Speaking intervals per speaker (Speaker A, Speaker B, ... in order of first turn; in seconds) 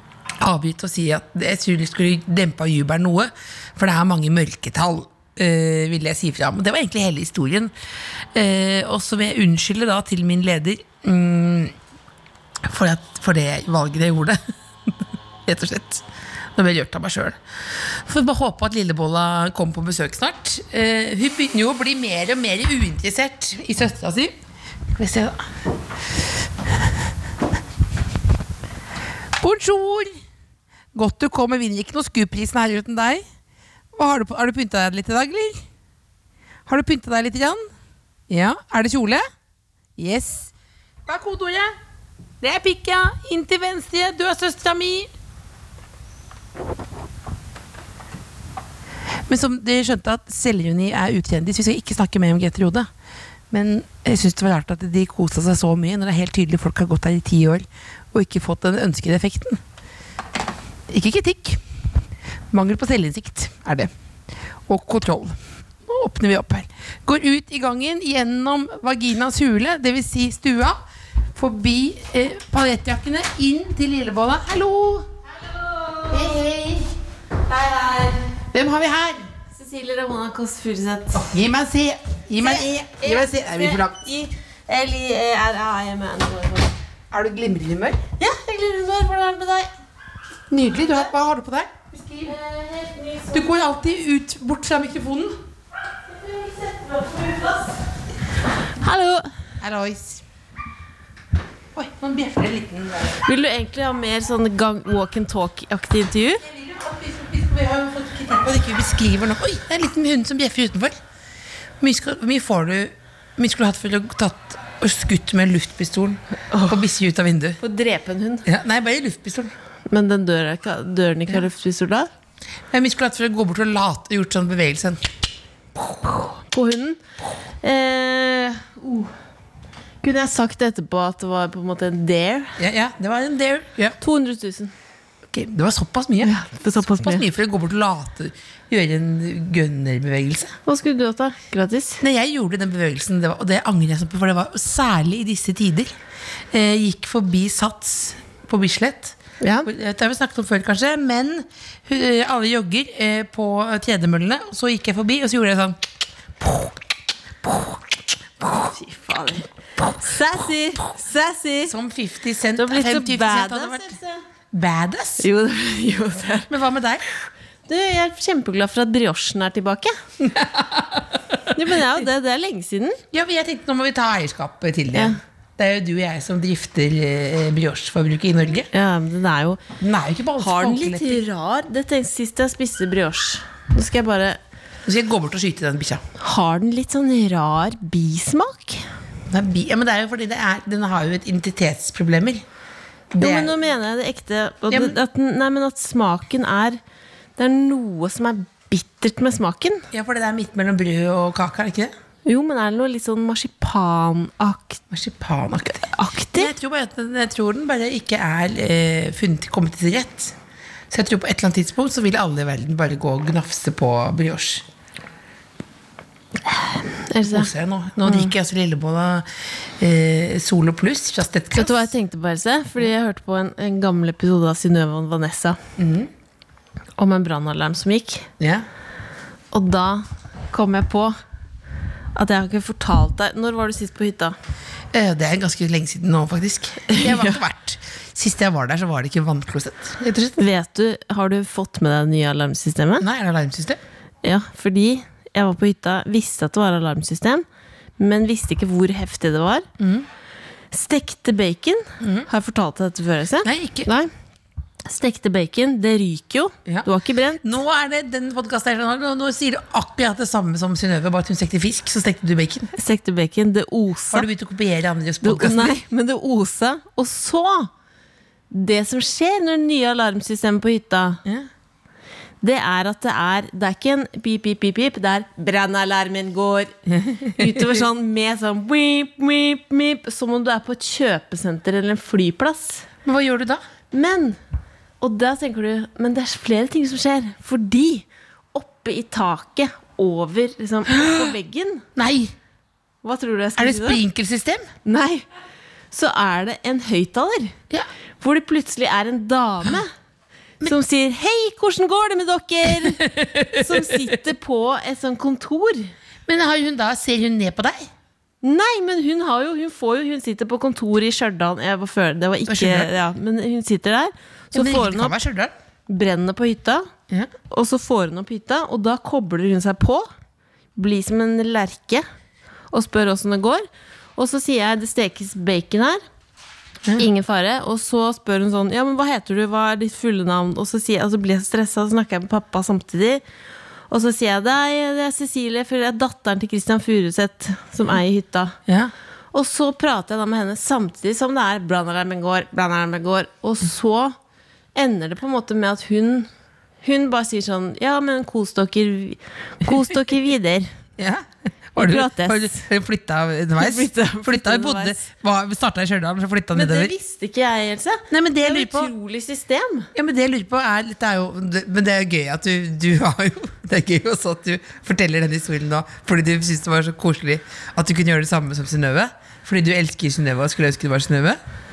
Speaker A: 0.4-7.7, 8.3-11.7, 12.7-14.4, 15.4-16.0, 16.6-17.4, 17.9-24.3, 24.9-25.4, 29.4-30.1, 30.9-33.2, 33.9-35.6, 36.6-37.7, 38.3-39.2, 40.0-40.5, 41.1-41.8, 42.4-45.1, 49.3-52.9, 53.5-59.6, 60.9-61.6, 62.5-63.9, 64.7-70.8, 71.3-75.1, 76.1-76.9, 78.5-79.3, 81.1-84.1, 87.1-88.0, 90.5-92.3, 93.3-95.4, 99.6-100.2, 101.7-103.2, 106.5-110.9, 111.8-117.6, 118.4-119.5, 122.7-125.0, 132.6-134.0, 135.3-140.5, 142.0-145.9, 146.5-155.8, 156.4-156.8, 157.4-158.7, 161.6-164.0, 164.5-165.2, 166.5-167.0, 170.2-171.1, 173.1-178.7, 179.8-181.2, 184.8-186.0, 189.3-192.4, 193.1-193.6, 194.7-194.9, 199.9-201.9, 204.9-210.3, 210.9-214.6, 217.3-219.2, 219.8-221.9, 225.8-226.1, 228.4-228.6, 234.9-240.4, 243.0-243.8, 249.8-250.1, 252.0-252.3, 253.4-253.9, 257.4-262.7, 264.1-265.7, 276.9-277.6, 283.1-283.6, 291.9-292.3, 293.6-294.7, 302.9-304.0, 306.3-307.8, 312.5-312.9, 314.5-315.5, 338.7-338.9, 351.0-356.9, 358.1-358.9, 359.9-371.4
Speaker B: 75.3-76.6, 77.5-78.4, 79.5-81.2, 82.4-86.7, 88.2-89.7, 90.8-91.1, 92.1-93.5, 96.1-97.8, 98.8-99.3, 103.2-106.4, 116.5-116.8, 117.6-118.5, 119.9-122.1, 126.3-127.0, 127.6-129.1, 130.0-132.6, 134.0-134.7, 136.2-137.2, 140.7-142.0, 149.4-149.7, 158.7-161.7, 162.6-164.2, 165.2-166.5, 167.7-170.0, 171.5-173.0, 174.9-175.2, 178.7-179.6, 180.4-184.4, 186.2-188.9, 193.2-196.8, 197.4-199.9, 202.2-204.8, 205.9-206.5, 216.4-217.5, 218.1-218.3, 221.6-225.6, 227.0-228.3, 229.5-231.2, 232.2-234.3, 236.9-237.4, 240.4-243.1, 244.2-247.4, 248.0-249.7, 250.7-254.1, 254.8-257.4, 262.7-264.3, 265.2-267.7, 268.5-271.2, 272.4-276.8, 277.3-282.9, 283.9-284.4, 285.0-291.8, 293.0-294.0, 294.8-295.2, 295.9-297.6, 298.2-299.9, 300.6-305.9, 308.4-315.1, 315.9-316.9, 317.5-320.1, 320.8-322.1, 322.7-326.0, 327.0-333.2, 333.9-338.6, 339.3-344.2, 344.7-346.3, 346.8-350.7, 351.8-352.6, 353.6-355.0, 356.5-359.9